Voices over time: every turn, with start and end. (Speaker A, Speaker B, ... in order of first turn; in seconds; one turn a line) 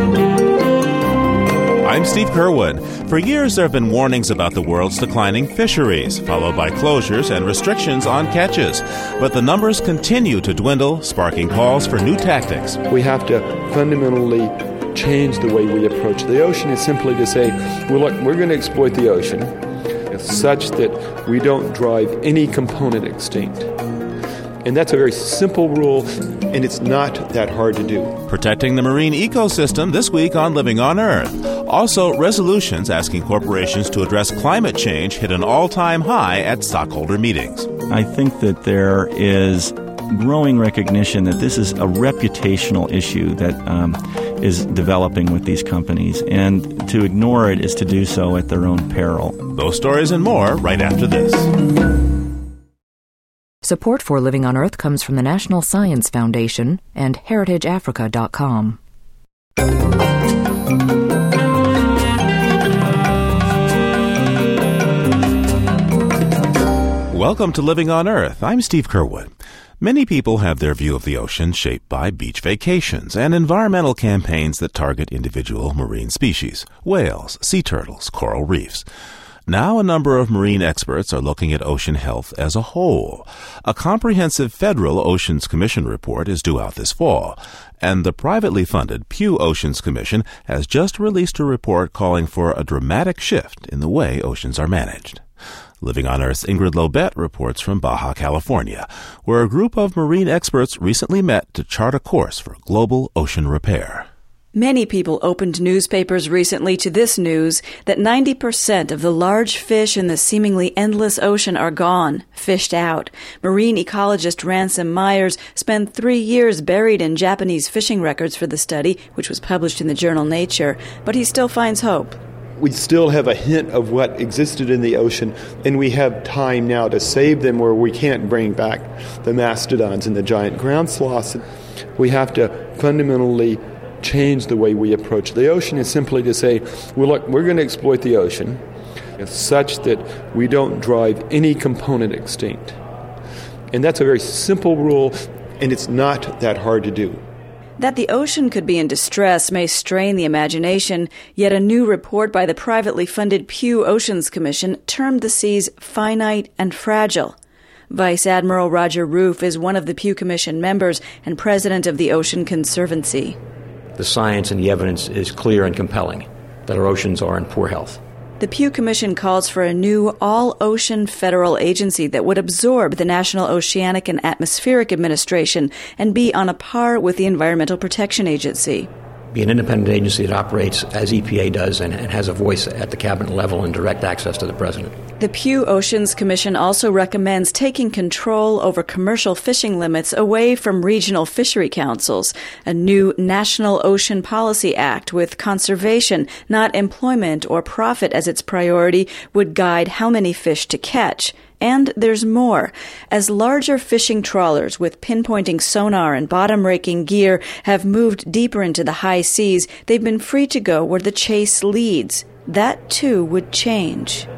Speaker A: 1.8-12.8
Speaker B: 12.9-19.6
Speaker B: 20.1-23.7
Speaker B: 24.6-28.2
Speaker A: 28.3-37.7
Speaker C: 37.9-49.4
Speaker A: 49.5-51.5
Speaker D: 53.6-58.8
Speaker A: 67.1-78.8
Speaker A: 79.5-95.2
Speaker A: 95.8-104.1
Speaker E: 104.5-122.2
Speaker B: 122.6-131.5
Speaker B: 132.0-138.6
Speaker B: 139.2-142.8
Speaker B: 143.7-147.2
Speaker E: 147.8-157.3
Speaker E: 157.9-163.4
Speaker F: 164.0-168.0
Speaker E: 168.4-178.9
Speaker F: 179.3-184.9
Speaker E: 185.2-214.3